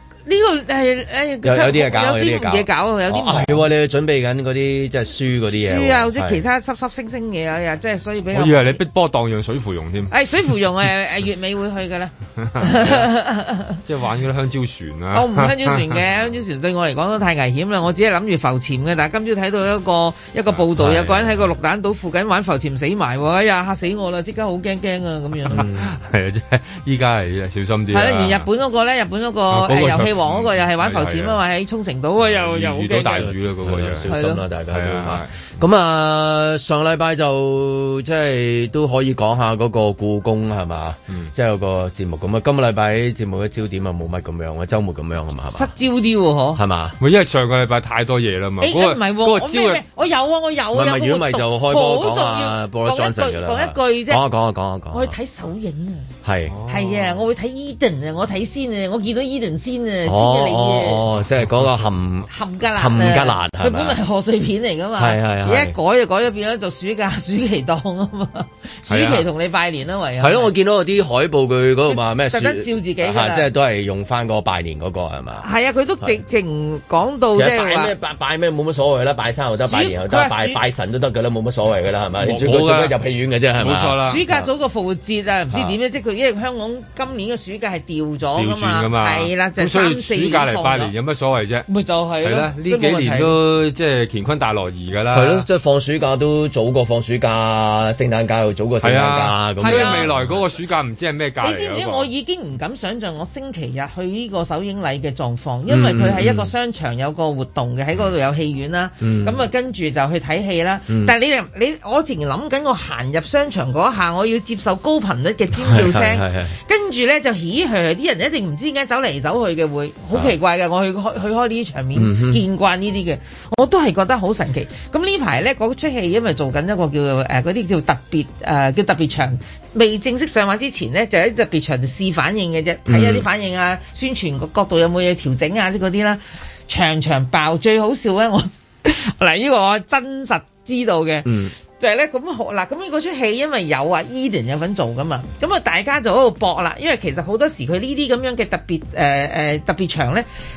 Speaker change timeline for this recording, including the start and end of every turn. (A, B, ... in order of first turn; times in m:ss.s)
0:00.2-0:03.6 A
0:01.4-0:06.4 B
0:05.5-0:08.8 A
0:08.3-0:10.1 C
0:10.1-0:13.8 A
0:12.4-0:13.1 C
0:13.8-0:16.0 C
0:15.1-0:25.6 A
0:20.8-0:21.4 B
0:25.5-0:26.0 B
0:25.5-0:28.4 C
0:27.9-0:33.3 A
0:29.5-0:31.4 C
0:32.2-0:34.1 C
0:33.2-0:45.7 B
0:34.1-0:34.4 A
0:34.7-0:35.3 C
0:45.5-0:46.6 A
0:46.6-0:47.0 B
0:47.0-0:49.8 C
0:48.6-0:54.2 A
0:50.7-0:55.1 B
0:54.9-0:56.1 A
0:56.2-0:56.6 B
0:56.5-0:57.2 C
0:56.7-1:01.0 A
1:00.0-1:04.0 B
1:02.3-1:10.5 A
1:05.0-1:05.7 B
1:08.9-1:09.3 C
1:10.2-1:15.4 B
1:11.9-1:13.5 A
1:15.4-1:17.9 A
1:17.3-1:24.0 B
1:19.6-1:20.6 A
1:22.2-1:22.9 C
1:23.6-1:24.3 C
1:24.0-1:30.9 A
1:28.4-1:31.6 C
1:31.7-1:33.3 A
1:32.2-1:35.4 C
1:35.1-1:40.4 B
1:38.8-1:42.1 C
1:39.6-1:40.1 A
1:41.4-2:30.2 A
1:45.7-1:46.5 B
1:49.0-1:49.4 B
1:50.9-1:51.1 B
1:55.5-1:56.6 B
2:01.9-2:02.4 B
2:12.8-2:13.2 B
2:21.2-2:21.5 B